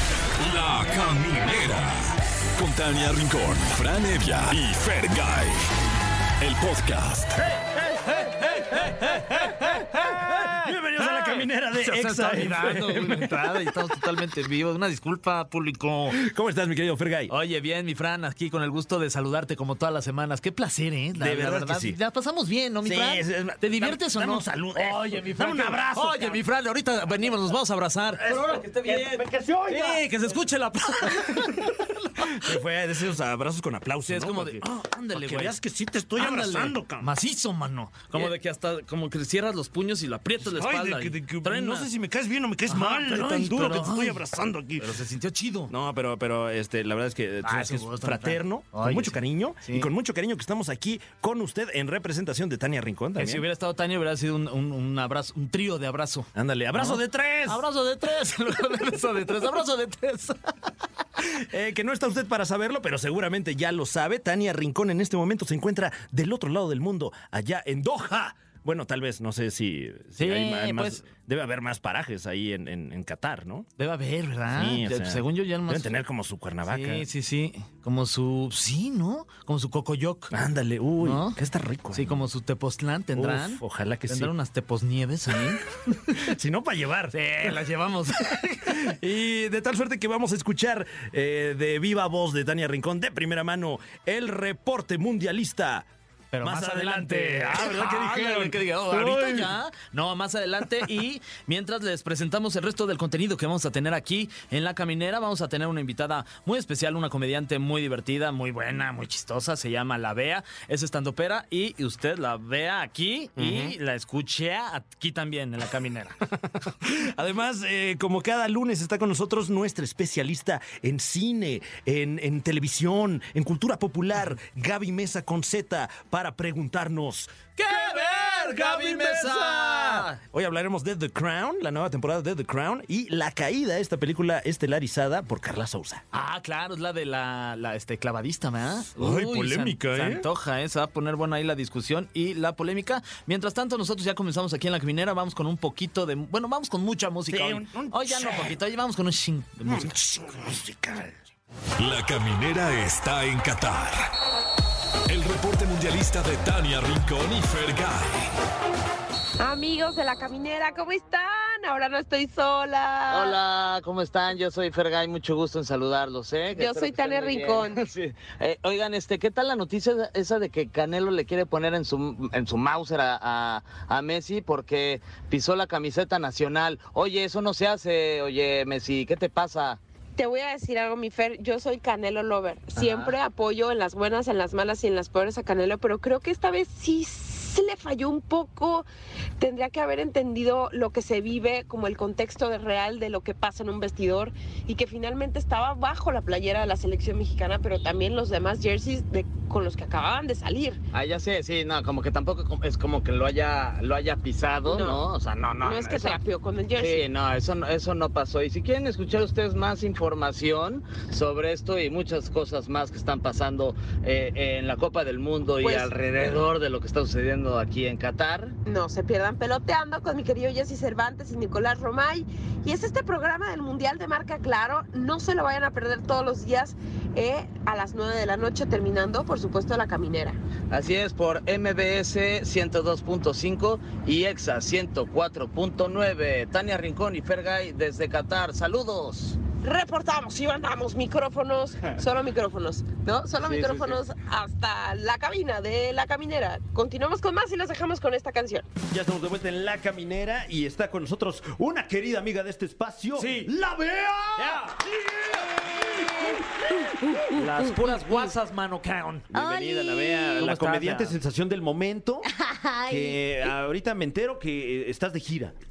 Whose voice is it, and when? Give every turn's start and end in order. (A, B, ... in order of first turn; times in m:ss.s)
0:00.4-0:05.6 A
0:06.4-0:07.4 A
0:07.6-0:13.6 B
0:09.6-0:10.4 C
0:11.0-0:16.2 C
0:16.1-0:17.3 B
0:17.3-0:32.3 C
0:21.2-0:22.0 B
0:22.8-0:26.4 B
0:28.2-0:30.1 B
0:31.1-0:37.1 B
0:34.1-0:35.6 C
0:36.2-0:41.9 C
0:40.4-0:45.0 B
0:42.7-0:44.2 C
0:44.8-0:45.7 C
0:45.7-0:53.4 B
0:47.4-0:49.9 C
0:53.2-1:00.5 C
0:56.3-0:57.6 B
1:01.2-1:13.7 B
1:10.2-1:11.0 C
1:13.8-1:15.9 C
1:14.5-1:17.1 B
1:16.6-1:20.3 C
1:20.3-1:22.2 B
1:21.0-1:21.4 C
1:21.9-1:26.3 C
1:23.2-1:24.3 B
1:25.3-1:27.6 B
1:27.1-1:28.9 C
1:28.2-1:35.9 B
1:36.3-1:56.2 C
1:36.4-1:39.6 B
1:53.4-1:53.8 B
1:56.7-2:16.0 B
2:07.6-2:10.2 C
2:16.1-2:30.1 C
2:19.0-2:20.3 B
2:27.3-2:28.6 B
2:29.6-2:31.1 B
2:31.8-2:34.1 A
2:35.1-2:38.3 A
2:39.4-2:43.4 D
2:43.1-2:59.8 E
2:46.5-2:47.8 D
3:00.2-3:08.9 D
3:02.8-3:03.1 E
3:09.4-3:20.8 D
3:20.9-3:26.2 E
3:24.7-3:25.1 D
3:25.6-3:27.1 D
3:26.8-3:38.6 E
3:35.6-3:35.9 D
3:38.7-3:50.4 D
3:50.7-3:59.4 E
3:59.6-4:08.7 D
4:03.5-4:03.9 E
4:08.9-4:16.4 B
4:13.2-4:13.5 C
4:14.4-4:14.8 C
4:15.3-4:18.3 F
4:17.3-4:19.3 C
4:19.3-4:22.3 B
4:19.3-4:20.5 F
4:20.4-4:21.2 C
4:22.3-4:23.5 F
4:22.9-4:25.6 B